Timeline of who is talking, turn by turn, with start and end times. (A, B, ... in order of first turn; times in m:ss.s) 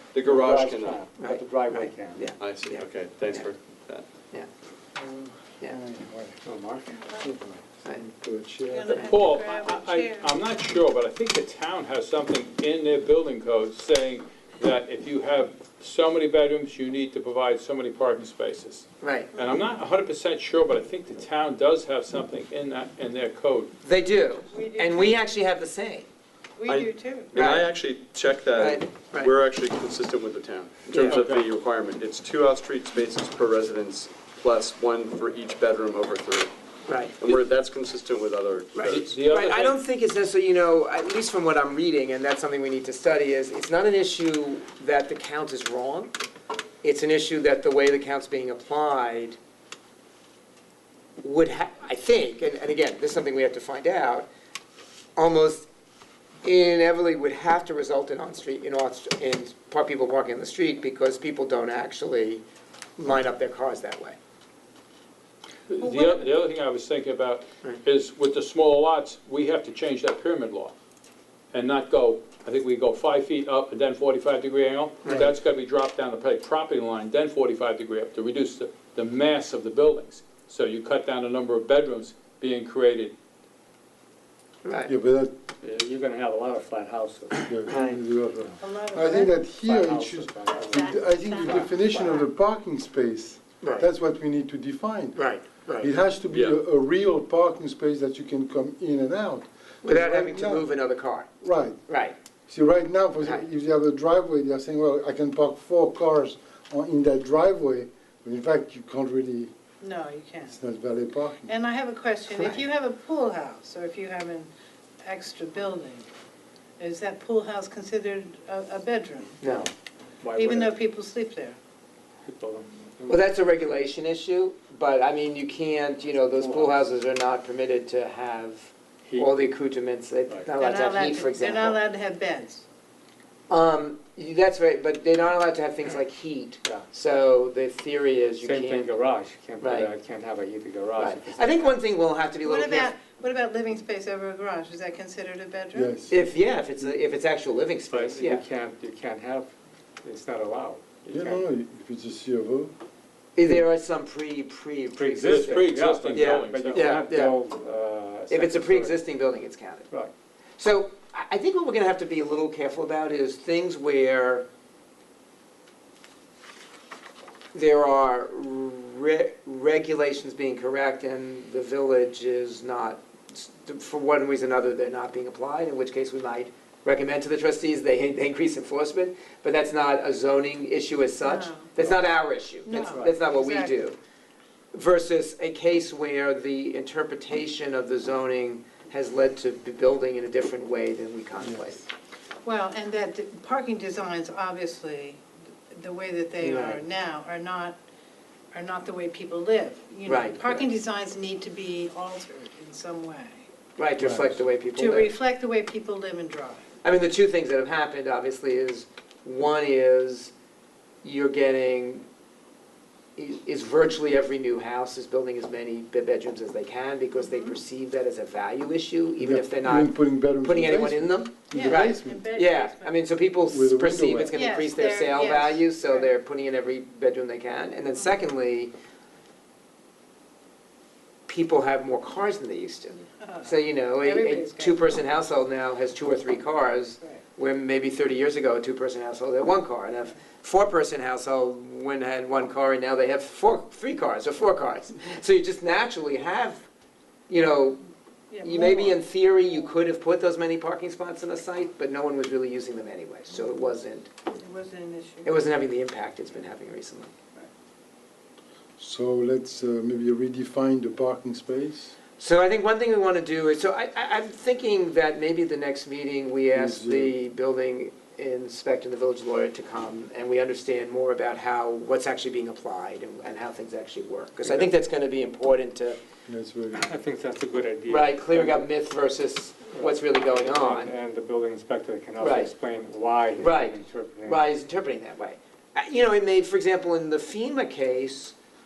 0:00.1-0:01.0 A
0:00.2-0:02.2 B
0:01.2-0:03.5 C
0:02.4-0:04.1 A
0:05.0-0:06.4 D
0:06.4-0:07.0 B
0:07.2-0:09.0 D
0:08.7-0:10.3 E
0:09.0-0:23.7 F
0:19.0-0:19.3 C
0:23.8-0:26.1 C
0:24.5-0:25.2 E
0:26.6-0:27.4 E
0:26.6-0:39.2 A
0:27.3-0:27.7 C
0:28.6-0:29.3 C
0:30.9-0:31.2 C
0:31.1-0:31.4 F
0:36.9-0:37.2 C
0:38.7-0:46.1 C
0:38.8-0:39.8 F
0:46.8-0:49.4 C
0:51.2-0:54.3 C
0:55.2-0:55.7 C
0:56.4-1:02.4 C
1:03.0-1:04.2 C
1:05.7-1:10.7 F
1:05.8-1:06.2 E
1:11.5-1:23.1 F
1:24.6-1:24.9 C
1:24.9-1:25.3 D
1:25.6-1:27.5 B
1:27.5-1:35.3 D
1:27.7-1:28.0 C
1:28.6-1:29.4 E
1:29.6-1:31.9 B
1:30.7-1:32.2 E
1:33.6-1:33.9 C
1:35.1-1:35.9 C
1:35.8-1:40.6 D
1:36.3-1:36.6 A
1:39.8-1:41.3 C
1:41.4-1:41.8 D
1:41.9-1:42.2 C
1:42.5-1:49.5 D
1:49.8-1:50.5 E
1:50.4-1:51.5 D
1:51.5-1:54.5 E
1:55.0-1:56.1 E
1:56.8-1:59.4 E
1:59.4-1:59.7 C
1:59.4-2:00.8 B
2:00.3-2:01.6 E
2:02.2-2:03.2 B
2:03.1-2:11.8 C
2:06.4-2:06.9 B
2:09.0-2:09.4 B
2:10.6-2:12.6 E
2:13.5-2:18.9 C
2:18.4-2:21.8 B
2:19.6-2:19.9 C
2:21.0-2:22.9 C
2:22.4-2:26.0 E
2:25.7-2:26.2 D
2:26.1-2:28.4 C
2:27.9-2:31.4 B
2:31.1-2:32.7 D
2:33.3-2:37.4 C
2:34.9-2:39.0 B
2:35.2-2:37.0 F
2:38.3-2:39.9 C
2:40.6-2:44.5 C
2:47.5-3:03.9 C
3:01.2-3:01.8 E
3:02.6-3:03.8 E
3:04.7-3:11.8 C
3:12.4-3:17.8 E
3:16.4-3:16.8 C
3:18.5-3:23.5 E
3:20.0-3:20.7 C
3:23.8-3:25.1 C
3:24.0-3:24.4 D
3:24.7-3:26.6 E
3:26.8-3:30.3 C
3:31.0-3:32.0 C
3:33.2-3:48.7 C
3:37.2-3:37.6 E
3:39.2-3:42.3 D
3:41.5-3:43.0 E
3:43.4-3:44.4 D
3:44.2-3:46.1 E
3:51.3-4:06.7 C
3:53.2-3:54.9 E
4:07.3-4:07.8 C
4:08.3-4:09.0 E
4:08.4-4:14.1 C
4:13.3-4:13.7 E
4:14.3-4:15.4 E
4:15.2-4:17.1 C
4:18.8-4:21.9 D
4:22.2-4:36.0 C
4:26.5-4:27.2 D
4:36.3-4:36.8 D
4:36.7-4:38.7 B
4:37.9-4:40.9 C
4:39.7-4:44.4 B
4:42.2-4:42.5 C
4:43.4-4:48.3 C